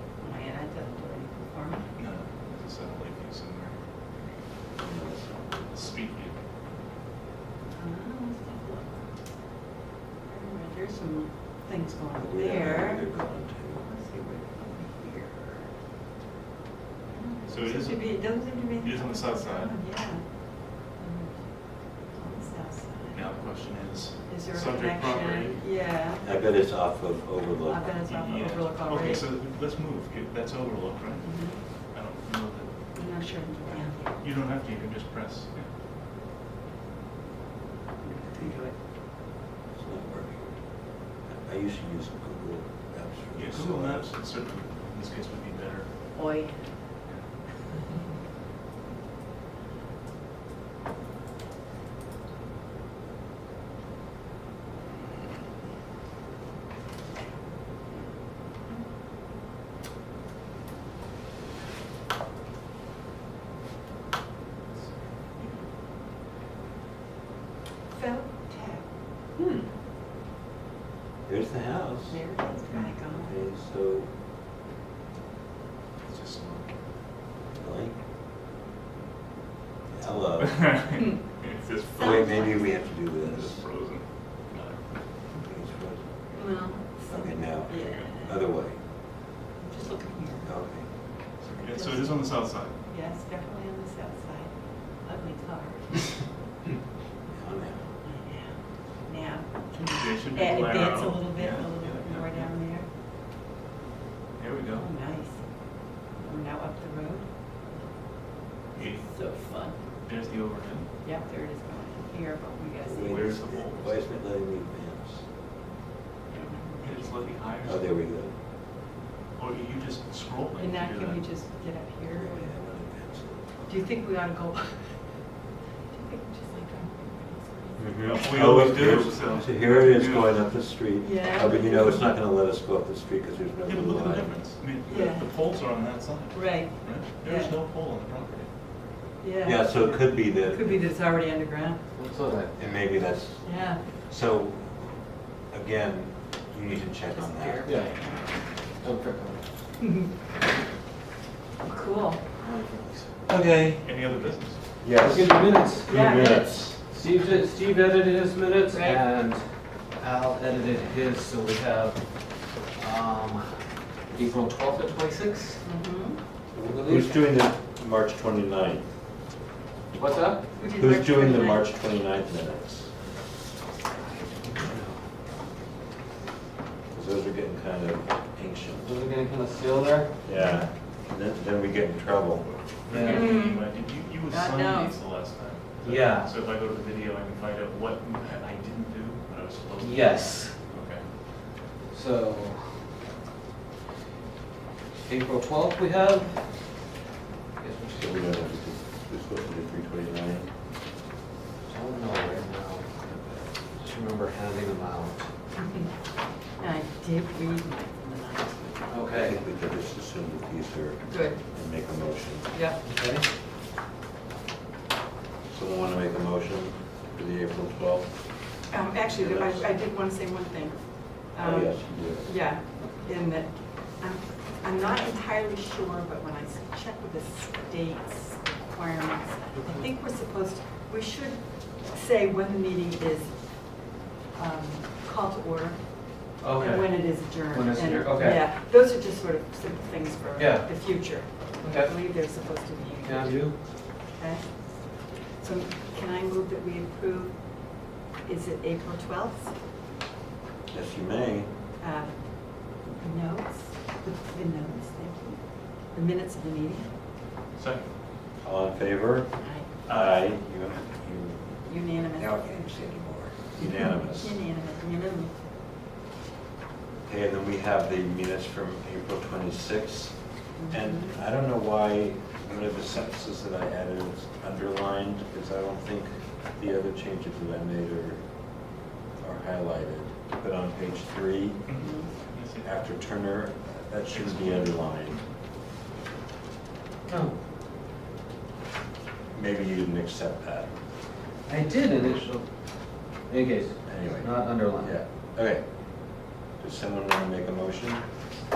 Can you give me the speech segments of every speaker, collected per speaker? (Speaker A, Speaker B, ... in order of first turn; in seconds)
Speaker A: 0.2-1.9, 7.7-9.0, 10.3-13.0, 13.8-15.7, 17.1-20.2, 21.0-21.4, 22.1-23.1, 25.4-26.2, 27.7-29.2, 31.3-31.6, 33.0-34.1, 46.1-46.5, 67.9-68.8, 72.1-73.3, 82.0-82.5, 86.3-88.3, 89.6-90.5, 91.6-92.2, 92.9-96.2, 98.1-98.5, 99.0-102.8, 104.8-105.5, 106.1-107.3, 108.8-109.8, 111.0-112.9, 116.3-117.1, 120.6-122.4, 123.7-124.9, 125.9-127.8, 131.0-132.1, 134.9-135.2, 136.3-137.5, 139.2-139.6, 140.5-141.8, 143.4-143.8, 147.2-147.8, 149.8-150.1, 151.6-152.2, 155.9-156.4, 158.7-159.0, 165.6-166.2, 170.6-171.7, 180.3-180.7, 183.0-183.7, 184.3-184.9, 205.6-205.9, 206.6-208.9, 211.1-211.4, 212.5-212.8, 218.7-221.7, 222.2-243.4, 244.1-249.5, 251.8-256.9, 259.4-259.7, 261.7-262.3, 263.6-265.3, 270.6-271.1, 281.8-282.1
Speaker B: 1.9-4.4, 5.7-6.3, 17.5-19.8, 23.1-25.6, 28.1-32.7, 34.2-35.7, 43.3-45.9, 76.0-76.7, 80.4-82.3, 83.2-84.8, 91.4-92.7, 99.8-102.5, 104.4-104.9, 110.0-110.9, 113.0-113.9, 116.8-117.8, 119.3-121.2, 128.0-130.4, 133.7-138.5, 153.8-154.6, 182.5-191.1, 257.5-257.9, 259.9-260.2, 281.7-282.7, 284.1-284.7
Speaker C: 4.8-5.7, 12.1-13.9, 26.2-27.9, 38.3-38.6, 39.7-40.5, 41.2-44.1, 71.2-72.2, 73.1-74.1, 77.5-78.0, 79.9-80.8, 82.0-83.6, 85.4-86.1, 87.1-88.8, 90.4-90.9, 97.3-97.9, 112.8-115.2, 117.6-118.3, 122.2-123.5, 127.8-134.3, 139.4-140.8, 142.6-147.7, 153.3-153.9, 154.8-156.8, 166.6-168.8, 170.8-172.9, 174.6-174.9, 176.9-178.9, 180.2-182.5, 198.0-200.5, 209.1-212.5, 215.5-219.7, 221.4-222.3, 250.7-251.5, 258.4-264.4, 267.1-270.2, 270.7-278.2, 279.2-281.7, 282.6-285.2, 289.3-290.7, 293.9-295.6, 296.5-298.0
Speaker D: 69.4-69.7, 141.9-142.6, 147.6-149.4, 152.4-153.1, 154.9-159.4, 160.0-162.0, 162.7-163.6, 164.1-165.6, 166.6-167.2, 169.9-170.4, 174.4-174.7, 178.8-180.1, 182.9-183.3, 185.8-186.3, 189.8-190.6, 191.9-192.8, 195.1-196.5, 197.6-198.5, 201.7-205.2, 208.9-209.4, 212.8-213.2, 236.4-238.5, 240.4-242.0, 243.0-243.6, 287.1-287.4, 291.5-292.5, 293.3-294.9